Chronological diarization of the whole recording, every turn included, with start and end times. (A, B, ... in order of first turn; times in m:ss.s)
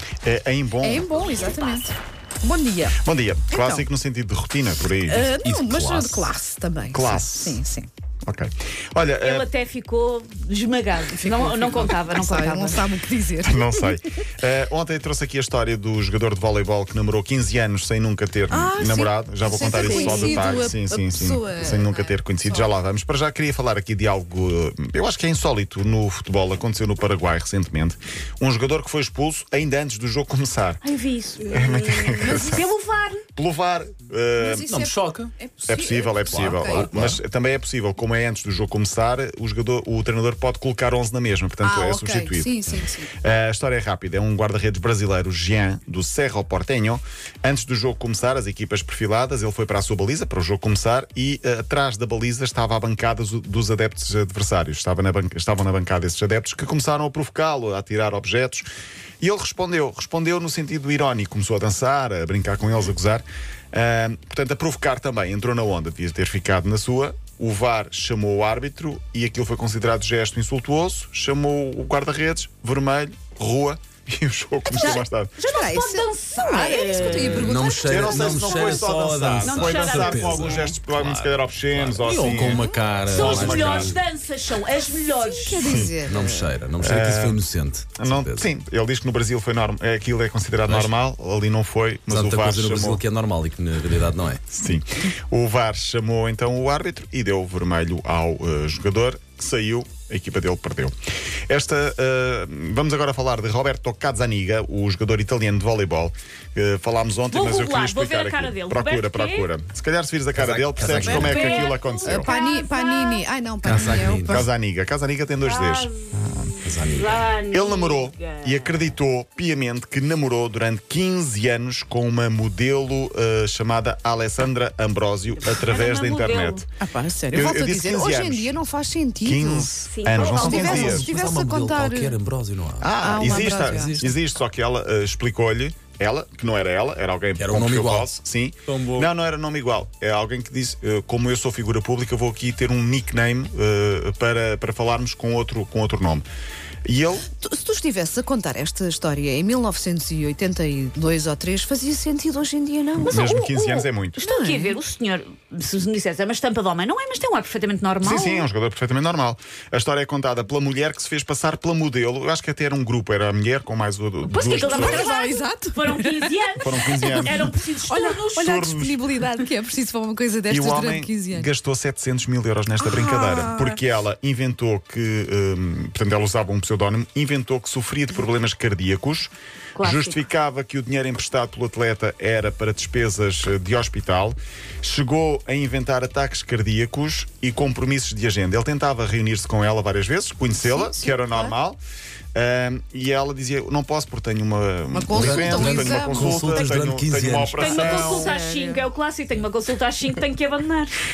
0:00.2-0:01.4 A
0:00.8-0:03.0 B
0:03.0-0:05.3 A
0:03.5-0:03.9 B
0:05.1-0:07.9 B
0:05.3-0:06.3 C
0:06.9-0:07.6 A
0:08.3-0:09.5 A
0:09.2-0:12.8 D
0:11.1-0:14.0 B
0:13.4-0:30.8 A
0:18.5-0:22.7 B
0:19.7-0:20.6 D
0:30.8-0:33.2 D
0:31.4-0:32.7 A
0:32.2-0:32.7 B
0:33.4-0:34.8 A
0:34.4-0:36.9 B
0:34.7-0:35.3 C
0:35.7-0:58.7 A
0:36.3-0:37.2 C
0:41.6-0:43.1 B
0:59.2-1:15.4 A
1:14.7-1:17.8 D
1:14.8-1:18.8 B
1:17.1-1:24.0 C
1:17.8-1:24.0 A
1:19.4-1:20.7 D
1:22.5-1:22.9 B
1:23.0-1:25.9 D
1:25.2-1:26.5 B
1:25.6-1:26.0 A
1:26.0-1:28.5 C
1:26.8-1:27.4 A
1:28.0-1:33.0 A
1:30.7-1:31.0 C
1:32.1-1:34.4 C
1:34.5-1:41.0 A
1:41.5-1:52.3 A
1:47.3-1:49.5 D
1:50.3-1:51.7 C
1:50.9-1:54.5 B
1:51.1-1:53.2 D
1:53.6-1:54.5 C
1:54.2-1:56.6 A
1:55.4-1:58.9 D
1:56.6-1:57.3 C
1:57.5-2:06.6 A
2:05.3-2:06.7 D
2:06.8-2:12.2 B
2:07.3-2:08.6 A
2:09.2-2:11.1 A
2:09.9-2:11.0 D
2:10.4-2:14.1 C
2:12.8-2:26.3 A
2:13.0-2:14.0 B
2:17.4-2:18.1 C
2:18.7-2:19.1 C
2:26.8-2:27.3 A
2:27.3-2:33.2 B
2:33.0-2:34.2 A
2:33.0-2:38.5 D
2:34.2-2:34.8 B
2:38.0-2:45.1 A
2:44.3-2:48.6 D
2:44.6-2:51.5 B
2:46.6-2:47.6 A
2:48.4-2:49.0 A
2:50.5-3:11.8 A
2:52.8-2:53.8 B
2:59.8-3:00.2 D
3:10.6-3:11.5 B
3:12.4-3:18.3 A
3:14.9-3:16.3 B
3:15.1-3:17.9 C
3:16.4-3:16.8 D
3:17.6-3:21.0 D
3:17.8-3:18.8 B